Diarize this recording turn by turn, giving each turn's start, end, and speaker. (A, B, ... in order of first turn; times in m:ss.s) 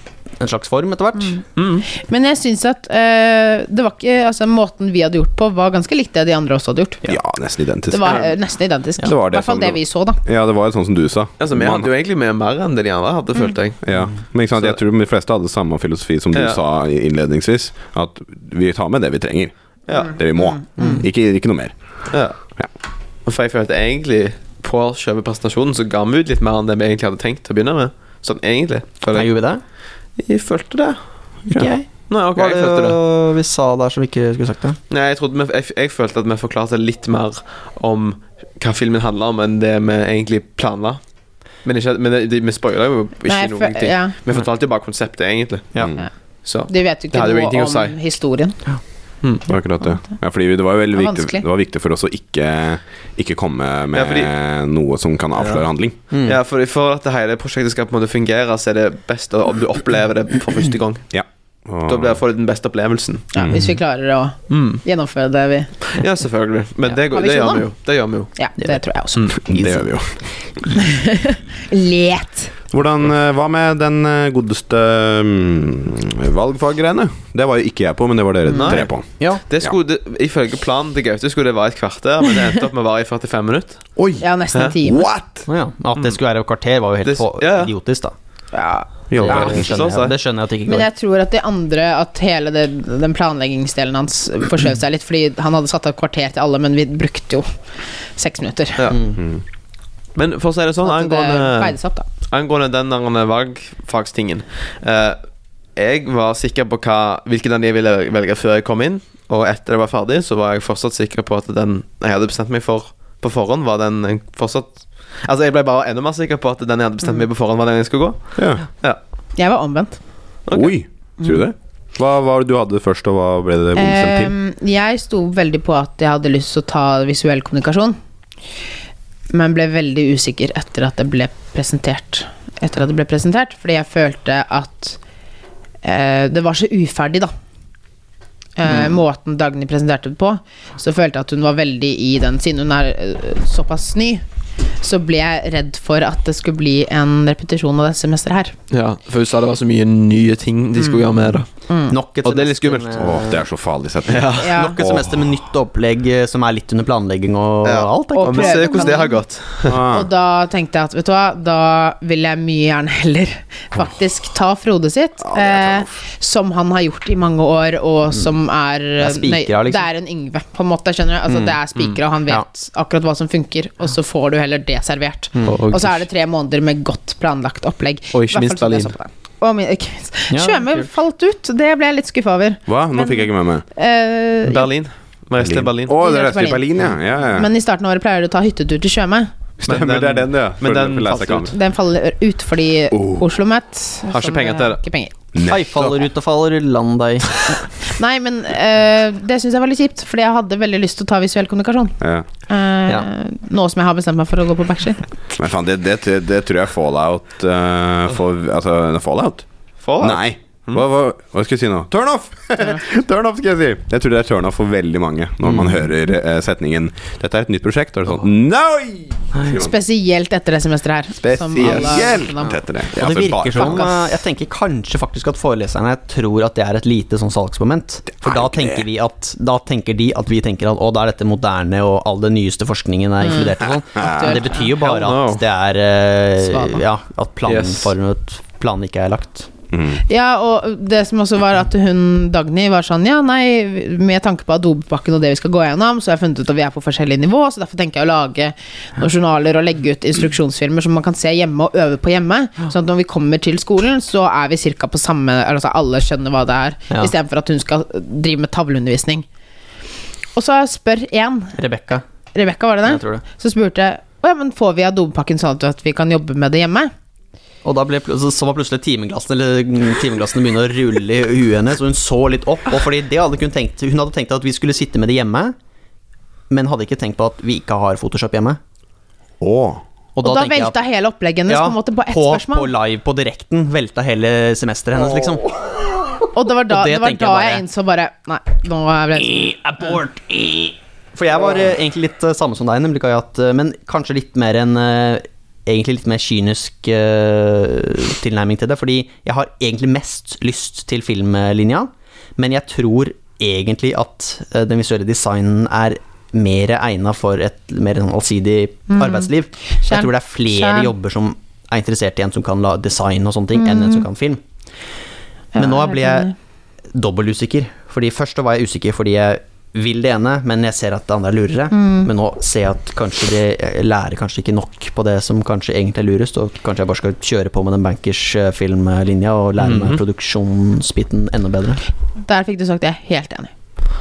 0:00.4-0:01.4 A
0:01.6-0:01.8 B
0:01.9-0:07.0 C
0:07.1-0:08.3 D
0:07.9-0:10.2 C
0:08.0-0:08.3 B
0:09.0-0:11.9 D
0:11.4-0:13.9 B
0:13.8-0:21.7 D
0:16.3-0:16.6 B
0:19.9-0:20.2 B
0:20.0-0:21.0 C
0:22.1-0:22.4 B
0:23.2-0:29.3 B
0:29.1-0:29.6 A
0:30.2-0:31.0 B
0:31.5-0:34.8 A
0:32.1-0:33.0 B
0:34.9-0:41.0 B
0:41.6-0:48.0 B
0:43.3-0:44.1 C
0:46.7-0:48.6 C
0:49.5-0:56.0 D
0:50.9-0:51.4 C
0:53.9-0:54.3 B
0:55.4-1:01.1 B
0:56.1-0:56.4 A
1:01.1-1:02.2 D
1:01.8-1:03.3 B
1:03.3-1:05.8 C
1:03.3-1:03.6 D
1:04.5-1:04.8 B
1:05.9-1:08.4 B
1:07.1-1:07.7 C
1:08.4-1:09.3 C
1:09.4-1:10.2 D
1:09.5-1:09.8 A
1:10.7-1:12.5 C
1:12.7-1:19.1 D
1:18.5-1:18.8 C
1:18.5-1:18.9 B
1:19.4-1:23.8 B
1:24.0-1:24.2 D
1:24.2-1:25.1 C
1:24.8-1:25.5 D
1:25.5-1:28.1 A
1:27.0-1:27.7 B
1:28.5-1:29.6 C
1:29.1-1:29.7 D
1:29.2-1:30.9 A
1:29.2-1:30.1 B
1:30.6-1:37.5 C
1:38.2-1:38.9 C
1:38.9-1:39.2 A
1:40.1-1:41.8 B
1:40.8-1:42.0 C
1:42.3-1:45.2 B
1:45.7-1:59.0 B
1:58.4-1:58.6 D
1:59.4-2:00.0 C
2:00.4-2:00.7 B
2:00.5-2:04.3 D
2:03.8-2:08.0 C
2:09.3-2:15.0 C
2:15.8-2:17.3 C
2:18.6-2:24.2 C
2:24.8-2:28.6 C
2:28.7-2:31.5 B
2:31.7-2:32.0 C
2:31.9-2:33.4 A
2:32.2-2:33.2 B
2:33.0-2:35.4 D
2:34.1-2:34.6 B
2:34.4-2:34.8 C
2:34.5-2:39.0 A
2:37.6-2:39.8 B
2:38.2-2:39.2 C
2:39.6-2:40.1 D
2:39.7-3:04.7 C
2:45.2-2:45.9 D
2:49.0-2:49.9 A
2:51.3-2:51.6 A
2:55.3-2:55.6 A
2:55.4-2:56.0 B
2:58.1-2:58.9 B
3:00.3-3:00.9 A
3:02.7-3:03.6 D
3:04.4-3:05.9 B
3:05.4-3:07.5 D
3:06.0-3:06.6 C
3:07.3-3:09.3 C
3:09.6-3:11.6 D
3:09.6-3:11.6 B
3:11.5-3:15.1 C
3:12.9-3:13.3 D
3:14.1-3:14.8 B
3:15.3-3:16.0 D
3:15.4-3:17.3 A
3:17.8-3:22.0 C
3:22.0-3:22.2 D
3:22.5-3:25.0 C
3:25.3-3:29.4 D
3:29.8-3:30.8 B
3:30.0-3:39.7 D
3:35.4-3:35.8 A
3:39.5-3:42.6 C
3:41.2-3:43.9 D
3:42.9-3:59.5 A
3:48.2-3:48.8 D
3:53.3-3:54.8 C
3:53.9-3:54.4 D
3:54.8-3:55.4 B
3:56.4-3:56.8 C
3:57.4-3:57.9 B
3:59.7-4:00.0 D
4:00.0-4:19.2 C
4:20.3-4:21.6 C
4:21.6-4:22.0 A
4:22.3-4:26.9 C
4:22.8-4:23.2 A
4:27.6-4:35.5 A
4:36.5-4:38.6 A
4:39.4-4:39.8 D
4:40.1-4:40.8 A
4:40.2-4:42.7 C
4:41.5-4:45.6 A
4:46.3-4:50.0 C
4:46.7-4:47.6 A
4:49.2-5:14.4 A
5:08.9-5:10.9 C
5:13.6-5:14.0 C
5:15.5-5:16.3 C
5:15.6-5:16.3 A
5:16.9-5:31.8 A
5:21.7-5:22.1 C
5:29.6-5:30.0 B
5:32.2-5:33.5 C